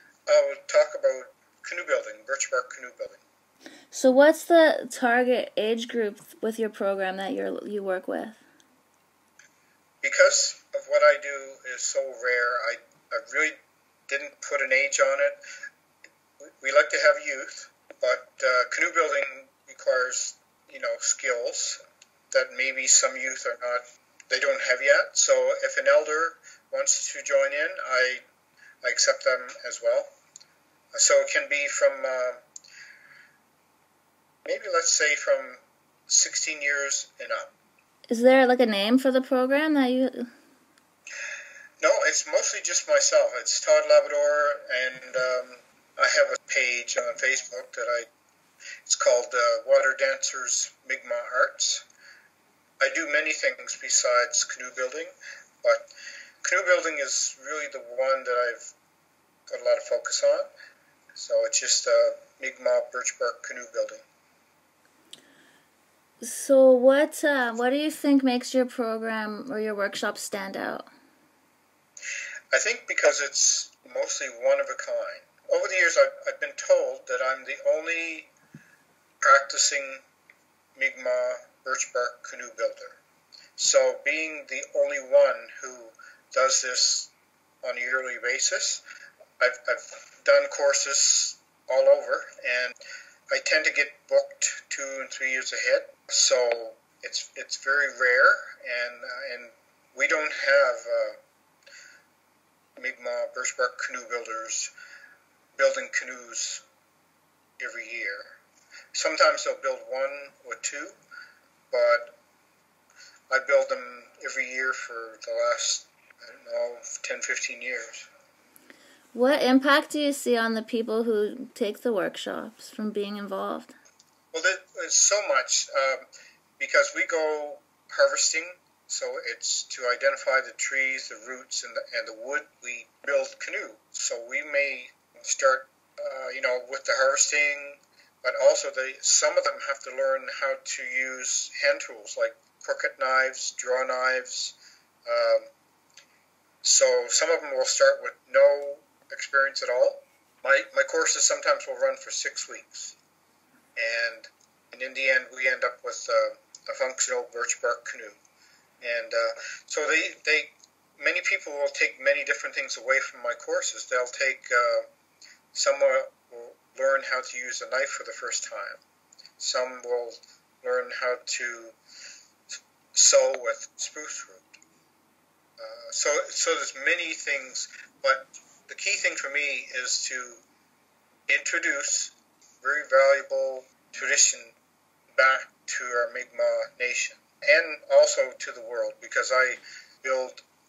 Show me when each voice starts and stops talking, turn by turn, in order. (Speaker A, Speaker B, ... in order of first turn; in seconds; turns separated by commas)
Speaker A: 0.3-3.2, Speaker B: 3.9-8.4, Speaker A: 10.0-13.6, Speaker A: 14.1-15.4, Speaker A: 16.4-21.8, Speaker A: 22.3-28.2, Speaker A: 28.8-30.1, Speaker A: 30.9-32.4, Speaker A: 34.5-37.5, Speaker B: 38.1-40.3, Speaker A: 41.8-48.1, Speaker A: 48.9-51.8, Speaker A: 52.8-55.9, Speaker A: 56.4-58.7, Speaker A: 59.5-60.5, Speaker A: 61.2-64.0, Speaker B: 66.2-70.9, Speaker A: 72.5-78.3, Speaker A: 79.2-80.0, Speaker A: 80.8-83.0, Speaker A: 83.6-87.1, Speaker A: 87.6-88.8, Speaker A: 89.4-92.8, Speaker A: 93.3-101.2, Speaker A: 102.8-104.7, Speaker A: 105.6-106.6, Speaker A: 107.6-108.4, Speaker A: 108.9-111.0, Speaker A: 111.7-112.2, Speaker A: 113.3-118.1, Speaker B: 119.1-123.7, Speaker A: 124.3-126.1, Speaker A: 126.6-144.6, Speaker A: 145.1-145.5, Speaker A: 146.6-153.0, Speaker A: 153.8-158.2, Speaker A: 158.8-164.9, Speaker A: 165.5-168.8, Speaker A: 169.4-171.8, Speaker A: 172.9-174.6, Speaker A: 175.6-180.4, Speaker A: 181.3-184.6, Speaker A: 185.2-190.4